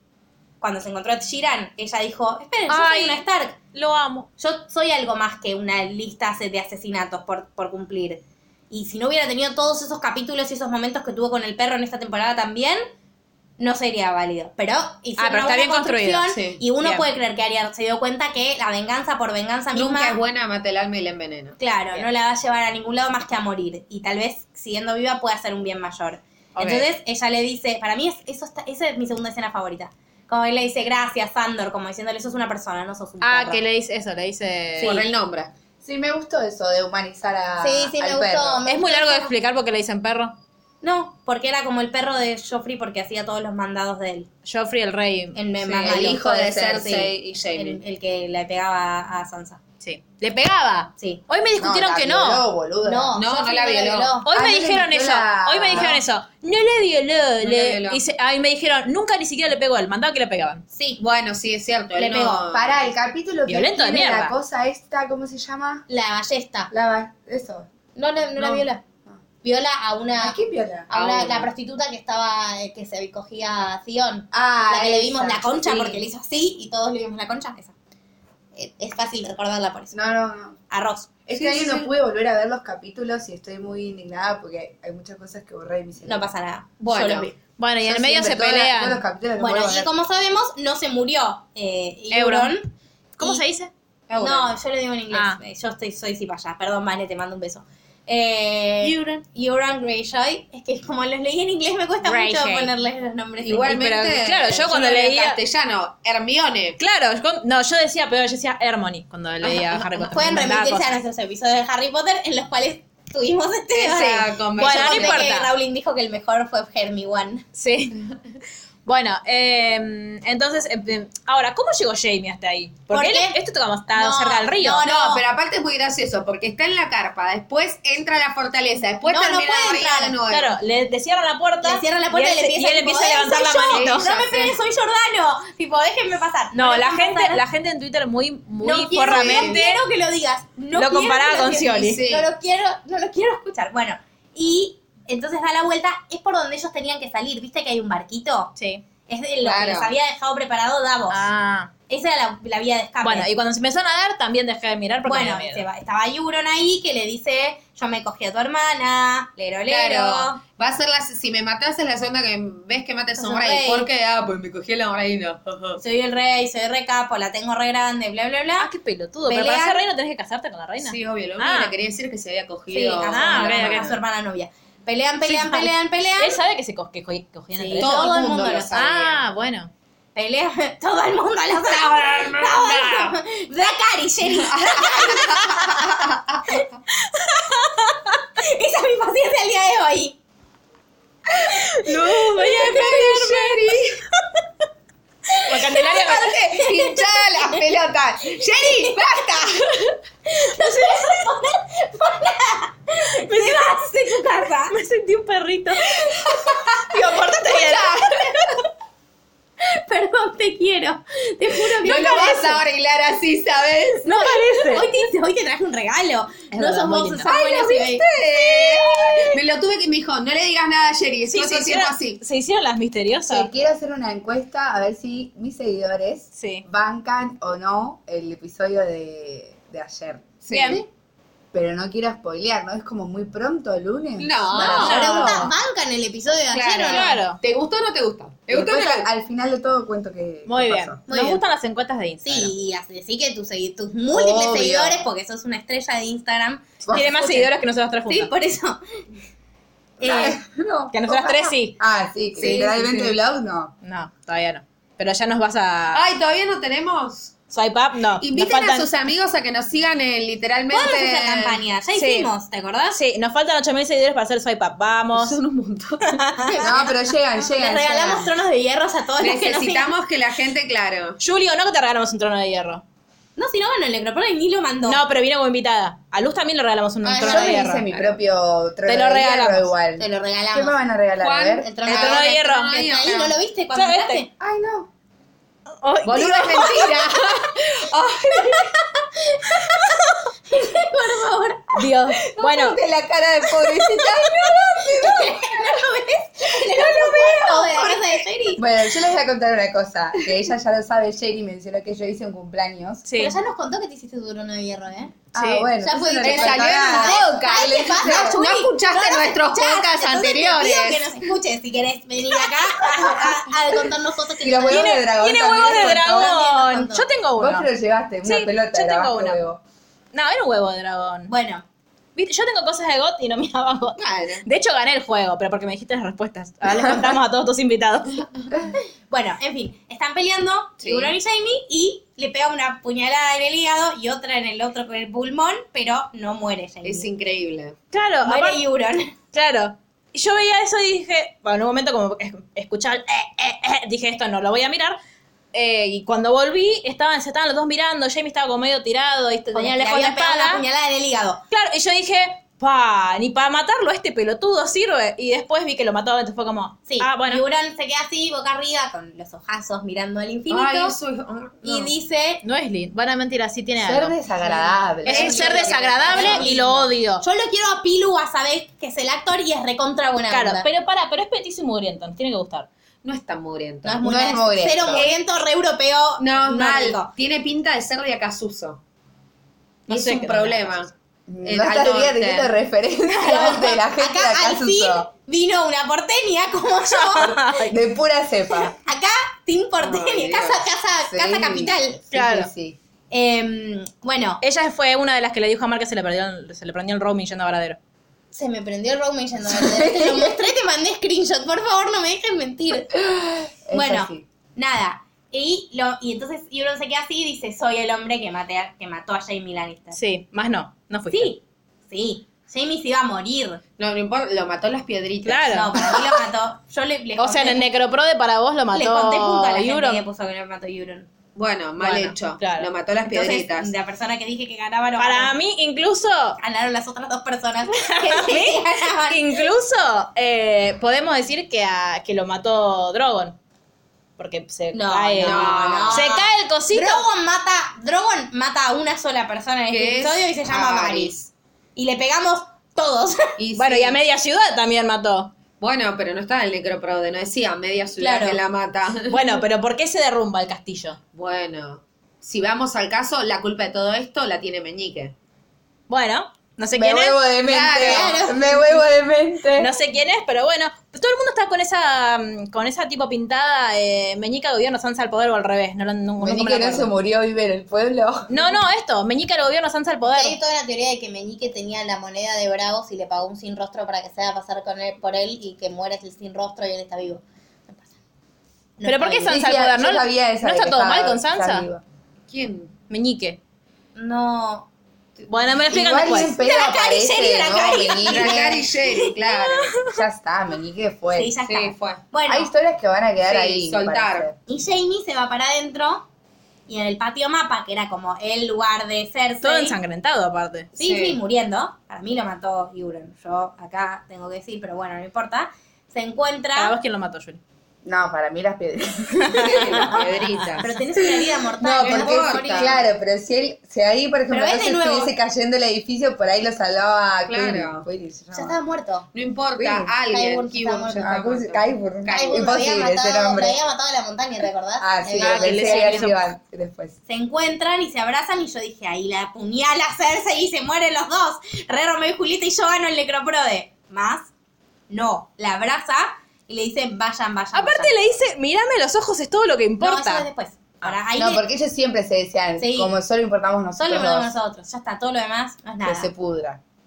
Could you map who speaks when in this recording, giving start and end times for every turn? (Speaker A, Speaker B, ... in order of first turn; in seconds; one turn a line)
Speaker A: 0.6-3.6
Speaker B: 2.7-4.3
Speaker A: 4.4-12.8
Speaker A: 13.6-20.2
Speaker B: 15.2-16.3
Speaker C: 16.3-16.6
Speaker B: 16.8-17.1
Speaker C: 19.7-21.6
Speaker A: 21.6-33.6
Speaker B: 26.6-26.9
Speaker B: 33.2-35.0
Speaker A: 34.8-35.1
Speaker C: 34.8-35.5
Speaker D: 35.8-38.6
Speaker A: 37.6-39.3
Speaker B: 38.6-40.4
Speaker A: 40.8-44.3
Speaker B: 44.4-45.9
Speaker A: 45.3-49.6
Speaker D: 45.8-46.9
Speaker C: 45.8-47.8
Speaker B: 49.8-52.5
Speaker D: 51.6-53.2
Speaker A: 52.8-54.3
Speaker C: 53.1-54.2
Speaker B: 54.2-60.6
Speaker D: 54.3-56.0
Speaker C: 57.4-58.0
Speaker A: 60.7-61.0
Speaker C: 61.0-62.9
Speaker A: 62.0-62.5
Speaker D: 62.5-65.8
Speaker B: 63.5-64.3
Speaker A: 65.9-66.7
Speaker D: 66.7-67.7
Speaker A: 68.0-68.8
Speaker D: 68.4-69.2
Speaker A: 69.4-70.4
Speaker D: 70.2-70.9
Speaker C: 70.9-71.5
Speaker A: 70.9-77.7
Speaker D: 74.3-76.0
Speaker A: 78.5-80.0
Speaker D: 79.9-80.5
Speaker A: 80.7-81.2
Speaker D: 81.3-86.3
Speaker C: 81.3-81.9
Speaker A: 86.0-87.3
Speaker C: 86.8-87.3
Speaker B: 87.6-89.0
Speaker D: 87.8-89.9
Speaker A: 89.4-93.4
Speaker B: 92.1-92.5
Speaker B: 93.2-93.7
Speaker C: 94.1-94.5
Speaker A: 94.2-104.0
Speaker B: 95.1-95.4
Speaker B: 102.0-102.7
Speaker C: 103.4-106.8
Speaker B: 103.7-105.4
Speaker B: 106.8-111.0
Speaker C: 109.4-109.9
Speaker A: 110.1-117.5
Speaker C: 113.7-115.3
Speaker B: 114.6-115.5
Speaker B: 117.5-118.0
Speaker B: 118.8-124.8
Speaker A: 122.9-123.4
Speaker A: 123.9-125.2
Speaker C: 124.8-130.6
Speaker A: 129.0-130.2
Speaker B: 130.3-134.1
Speaker A: 131.6-137.4
Speaker C: 133.7-134.6
Speaker B: 136.5-139.8
Speaker A: 138.6-148.5
Speaker C: 139.1-139.6
Speaker B: 140.7-142.0
Speaker C: 141.8-142.3
Speaker B: 148.6-148.8
Speaker A: 149.1-151.3
Speaker C: 149.4-149.9
Speaker B: 151.1-151.7
Speaker A: 151.9-153.3
Speaker B: 153.0-155.6
Speaker A: 155.0-160.4
Speaker C: 159.7-165.8
Speaker A: 163.2-163.9
Speaker A: 165.8-168.7
Speaker B: 168.6-171.7
Speaker A: 169.3-169.8
Speaker C: 170.8-174.0
Speaker A: 172.7-176.4
Speaker B: 173.1-173.9
Speaker B: 175.2-179.7
Speaker A: 177.5-178.9
Speaker C: 177.8-179.2
Speaker A: 180.1-185.8
Speaker C: 181.7-183.1
Speaker C: 184.3-186.4
Speaker B: 187.1-188.1
Speaker A: 188.2-190.2
Speaker B: 191.4-193.6
Speaker C: 191.8-194.0
Speaker A: 192.4-193.4
Speaker B: 195.4-196.4
Speaker A: 195.5-197.6
Speaker C: 195.9-199.9
Speaker A: 198.6-199.0
Speaker A: 200.2-204.7
Speaker B: 203.2-203.7
Speaker B: 204.7-205.9
Speaker C: 206.0-206.6
Speaker B: 206.9-208.2
Speaker C: 207.4-208.4
Speaker A: 209.6-212.6
Speaker C: 211.7-214.1
Speaker A: 214.0-218.1
Speaker B: 214.1-214.9
Speaker B: 216.5-217.3
Speaker C: 217.2-222.2
Speaker B: 218.5-219.3
Speaker B: 221.3-223.5
Speaker D: 223.3-230.4
Speaker B: 226.3-226.6
Speaker C: 230.4-230.8
Speaker B: 230.5-230.8
Speaker D: 231.5-235.4
Speaker C: 234.2-235.4
Speaker B: 234.5-235.5
Speaker A: 234.5-237.1
Speaker C: 236.5-239.1
Speaker B: 236.9-237.4
Speaker D: 238.5-241.0
Speaker B: 240.4-242.5
Speaker A: 241.1-241.4
Speaker A: 242.2-247.5
Speaker D: 244.1-245.1
Speaker D: 246.8-247.4
Speaker B: 246.9-248.3
Speaker A: 248.1-248.8
Speaker A: 250.0-250.4
Speaker D: 250.0-253.7
Speaker B: 250.9-251.8
Speaker A: 252.4-252.8
Speaker C: 252.4-253.1
Speaker B: 253.8-256.0
Speaker C: 255.9-257.4
Speaker B: 257.5-258.9
Speaker C: 258.2-261.6
Speaker A: 260.7-263.0
Speaker B: 261.9-262.3
Speaker B: 262.9-265.4
Speaker C: 265.1-266.3
Speaker B: 266.1-266.5
Speaker A: 266.4-269.9
Speaker D: 266.6-268.3
Speaker C: 269.2-271.2
Speaker B: 271.2-272.8
Speaker A: 273.4-275.0
Speaker B: 274.8-277.9
Speaker D: 277.1-281.7
Speaker A: 277.1-277.7
Speaker B: 278.9-279.7
Speaker A: 280.0-280.8
Speaker C: 281.2-283.4
Speaker A: 281.6-284.3
Speaker B: 281.8-282.8
Speaker B: 283.7-284.2
Speaker D: 284.4-284.9
Speaker B: 285.8-287.1
Speaker C: 286.0-288.8
Speaker A: 288.3-291.9
Speaker B: 291.7-292.8
Speaker D: 292.4-295.5
Speaker A: 294.7-298.6
Speaker C: 296.7-298.0
Speaker D: 298.5-303.1
Speaker B: 303.1-303.4
Speaker A: 303.1-305.2
Speaker D: 305.3-308.4
Speaker B: 305.3-305.7
Speaker A: 305.8-317.1
Speaker C: 306.2-311.1
Speaker D: 314.4-316.4
Speaker B: 314.7-317.7
Speaker D: 317.4-319.6
Speaker B: 318.2-319.4
Speaker B: 320.1-321.3
Speaker A: 321.3-321.6
Speaker B: 322.1-328.3
Speaker C: 324.0-324.4
Speaker A: 329.1-337.1
Speaker C: 330.8-331.1
Speaker C: 336.8-337.8
Speaker B: 337.9-338.6
Speaker A: 338.2-339.1
Speaker B: 339.3-345.0
Speaker B: 345.5-350.6
Speaker A: 349.5-351.4
Speaker B: 351.5-357.4
Speaker A: 356.9-360.9
Speaker C: 360.5-361.9
Speaker A: 361.6-362.4
Speaker B: 362.4-364.2
Speaker D: 363.8-366.4
Speaker A: 364.4-370.7
Speaker B: 365.0-367.2
Speaker C: 365.1-366.4
Speaker B: 370.3-372.7
Speaker C: 373.0-374.1
Speaker A: 373.8-377.1
Speaker D: 374.0-375.1
Speaker C: 374.9-375.2
Speaker C: 376.2-378.8
Speaker B: 379.9-380.8
Speaker C: 379.9-380.9
Speaker D: 381.3-385.1
Speaker C: 381.4-382.5
Speaker A: 383.2-387.5
Speaker B: 386.9-387.8
Speaker D: 387.6-388.8
Speaker A: 388.8-392.1
Speaker C: 389.8-390.6
Speaker D: 391.1-392.8
Speaker B: 392.1-392.5
Speaker A: 393.1-394.4
Speaker B: 394.4-397.8
Speaker A: 398.3-403.0
Speaker D: 399.5-400.3
Speaker D: 403.1-404.2
Speaker A: 403.7-410.0
Speaker B: 409.9-411.3
Speaker A: 411.1-413.6
Speaker C: 413.8-415.9
Speaker B: 415.2-415.9
Speaker A: 415.5-417.7
Speaker B: 417.2-420.0
Speaker A: 418.7-421.1
Speaker C: 421.3-423.7
Speaker B: 421.8-422.7
Speaker A: 423.0-425.4
Speaker B: 425.0-426.4
Speaker A: 426.4-429.4
Speaker B: 427.7-433.4
Speaker B: 434.2-437.0
Speaker A: 434.7-441.2
Speaker C: 435.2-436.1
Speaker C: 439.7-441.3
Speaker A: 441.8-443.4
Speaker C: 443.4-444.0
Speaker B: 443.5-445.3
Speaker C: 445.6-449.4
Speaker A: 448.0-448.4
Speaker B: 449.1-451.0
Speaker C: 451.1-455.1
Speaker B: 455.9-457.2
Speaker D: 456.7-459.7
Speaker C: 457.4-458.4
Speaker A: 457.8-458.8
Speaker B: 459.5-466.9
Speaker D: 466.2-468.6
Speaker B: 468.3-470.4
Speaker A: 470.1-477.9
Speaker A: 478.8-479.4
Speaker B: 478.8-481.6
Speaker D: 479.2-481.8
Speaker C: 482.3-482.7
Speaker B: 482.9-483.4
Speaker A: 483.9-484.7
Speaker B: 485.3-486.3
Speaker D: 485.7-488.7
Speaker A: 486.1-489.1
Speaker C: 487.9-489.8
Speaker D: 489.8-491.3
Speaker A: 491.1-492.5
Speaker C: 491.4-492.0
Speaker D: 492.2-494.4
Speaker C: 493.2-494.3
Speaker A: 494.5-496.1
Speaker A: 496.7-499.8
Speaker B: 499.4-500.7
Speaker A: 500.8-506.7
Speaker C: 500.8-501.2
Speaker B: 506.5-507.4
Speaker D: 507.8-509.9
Speaker B: 509.3-510.5
Speaker C: 509.3-510.7
Speaker A: 510.6-512.8
Speaker C: 511.6-512.8
Speaker D: 511.6-518.6
Speaker A: 514.3-515.1
Speaker C: 517.3-517.9
Speaker A: 518.3-519.1
Speaker C: 519.1-522.6
Speaker D: 519.6-519.9
Speaker A: 520.1-521.1
Speaker D: 521.0-523.6
Speaker A: 522.1-526.1
Speaker D: 524.8-526.9
Speaker B: 525.2-526.1
Speaker A: 527.1-534.3
Speaker A: 534.9-538.0
Speaker B: 537.5-540.3
Speaker A: 539.8-541.4
Speaker D: 541.1-544.3
Speaker A: 542.6-542.9
Speaker A: 543.8-546.1
Speaker D: 545.8-546.6